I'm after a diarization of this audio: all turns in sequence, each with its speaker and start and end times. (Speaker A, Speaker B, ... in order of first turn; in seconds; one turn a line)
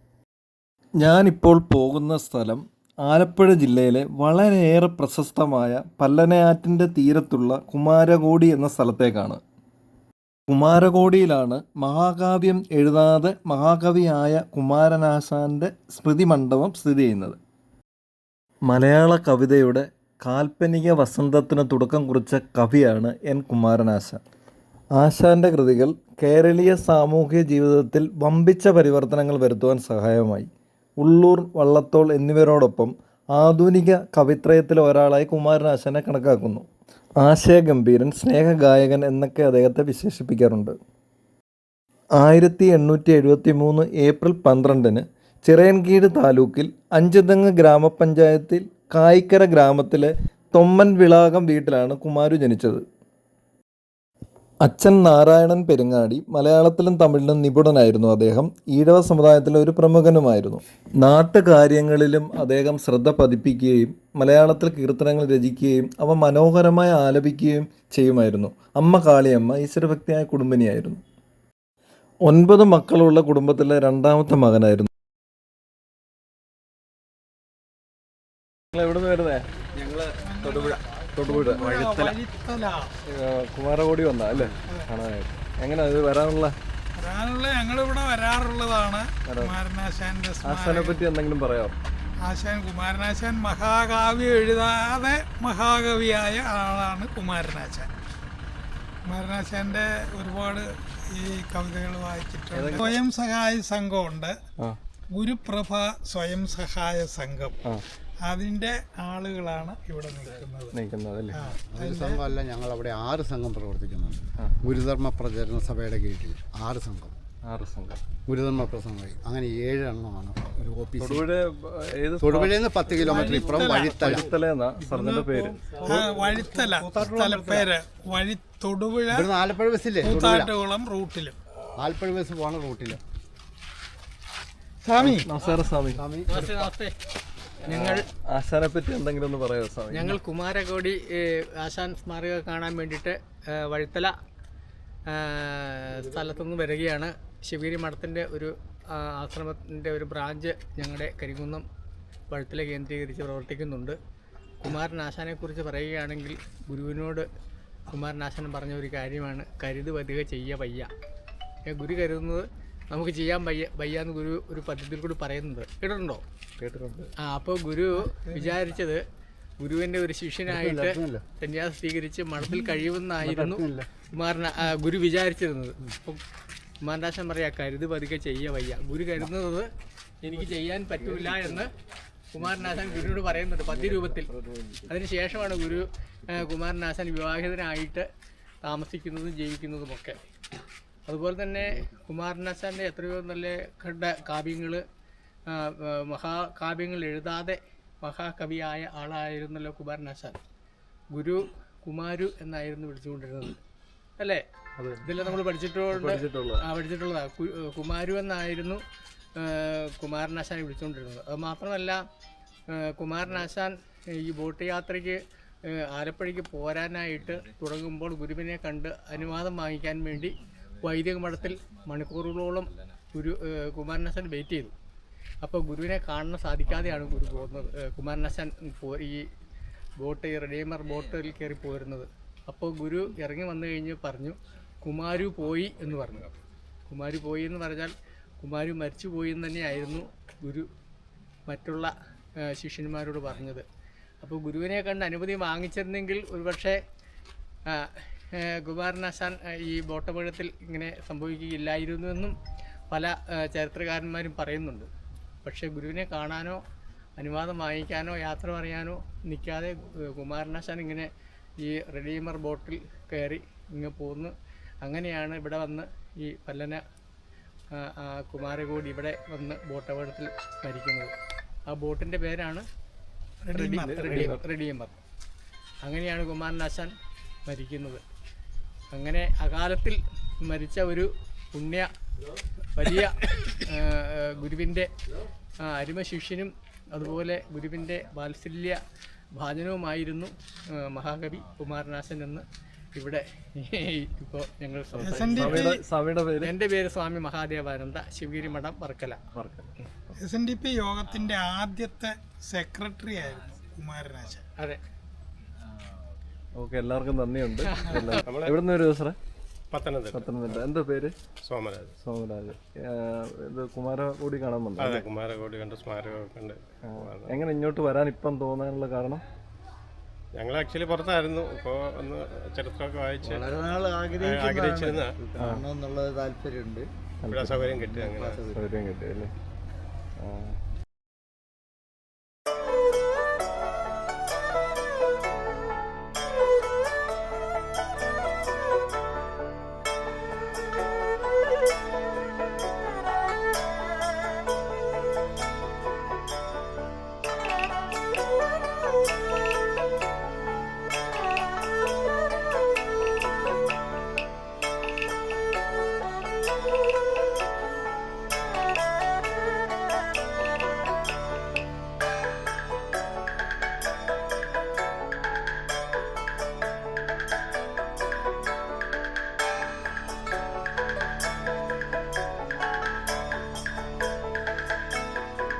Speaker A: 1.0-9.4
Speaker A: 10.5-17.4
Speaker A: 18.7-24.2
Speaker A: 25.0-30.5
Speaker A: 31.0-36.6
Speaker A: 37.2-40.7
Speaker A: 42.2-52.8
Speaker A: 54.6-71.0
Speaker A: 72.2-74.9
Speaker A: 78.7-82.2
Speaker B: 80.2-82.9
Speaker A: 83.1-86.5
Speaker B: 87.0-91.0
Speaker A: 89.3-89.5
Speaker A: 90.4-91.7
Speaker B: 92.2-97.9
Speaker B: 99.0-104.3
Speaker A: 102.5-103.0
Speaker B: 105.1-107.6
Speaker B: 108.2-110.8
Speaker A: 110.7-111.3
Speaker B: 111.3-112.3
Speaker C: 111.7-117.2
Speaker A: 117.4-118.0
Speaker C: 118.3-121.3
Speaker A: 121.0-125.9
Speaker C: 122.2-124.3
Speaker B: 123.0-124.1
Speaker B: 124.8-125.3
Speaker C: 125.5-127.7
Speaker B: 125.9-129.3
Speaker C: 129.1-130.5
Speaker B: 130.0-131.3
Speaker C: 131.8-133.0
Speaker B: 134.8-135.3
Speaker A: 135.0-136.0
Speaker C: 135.9-136.5
Speaker D: 136.3-136.9
Speaker D: 137.7-138.0
Speaker A: 137.7-140.2
Speaker D: 139.9-144.1
Speaker D: 145.1-151.6
Speaker D: 152.3-154.0
Speaker D: 154.6-157.2
Speaker D: 157.9-160.9
Speaker D: 161.7-166.2
Speaker A: 166.6-167.1
Speaker D: 167.2-169.0
Speaker B: 168.2-168.5
Speaker D: 169.6-176.2
Speaker C: 170.5-171.2
Speaker C: 172.4-172.7
Speaker C: 173.2-173.9
Speaker D: 176.8-179.7
Speaker D: 180.2-181.7
Speaker D: 182.3-184.3
Speaker A: 182.6-184.9
Speaker D: 184.8-188.1
Speaker D: 188.6-190.2
Speaker D: 191.1-194.8
Speaker D: 195.5-200.4
Speaker D: 201.1-203.6
Speaker D: 204.2-204.4
Speaker A: 204.8-205.1
Speaker D: 205.0-208.8
Speaker A: 205.9-206.6
Speaker D: 209.3-212.0
Speaker D: 212.7-215.2
Speaker D: 215.9-224.7
Speaker D: 225.4-229.2
Speaker D: 230.0-236.3
Speaker D: 236.9-240.7
Speaker D: 241.5-241.9
Speaker D: 242.5-243.6
Speaker D: 244.2-246.8
Speaker D: 247.7-252.3
Speaker D: 252.9-254.9
Speaker D: 255.4-256.6
Speaker D: 257.2-261.1
Speaker D: 261.6-264.3
Speaker D: 264.8-266.8
Speaker D: 267.7-271.1
Speaker D: 271.7-272.6
Speaker B: 273.4-274.0
Speaker D: 273.5-275.0
Speaker A: 273.8-274.4
Speaker D: 275.8-276.9
Speaker D: 277.4-278.0
Speaker D: 278.9-281.9
Speaker D: 282.7-284.9
Speaker D: 285.6-288.8
Speaker D: 289.3-295.7
Speaker A: 295.0-296.5
Speaker B: 295.0-295.8
Speaker D: 296.4-299.2
Speaker A: 299.3-299.7
Speaker B: 300.2-304.4
Speaker A: 306.5-309.1
Speaker D: 307.7-308.2
Speaker E: 308.2-308.5
Speaker E: 309.7-310.2
Speaker A: 310.1-311.1
Speaker E: 311.4-311.9
Speaker A: 312.0-315.0
Speaker E: 314.8-317.4
Speaker A: 316.8-319.2
Speaker E: 320.3-323.5
Speaker C: 323.2-326.9
Speaker E: 324.1-325.1
Speaker A: 325.4-325.6
Speaker A: 327.2-329.3
Speaker E: 327.3-328.5
Speaker C: 328.0-328.6
Speaker A: 330.2-330.5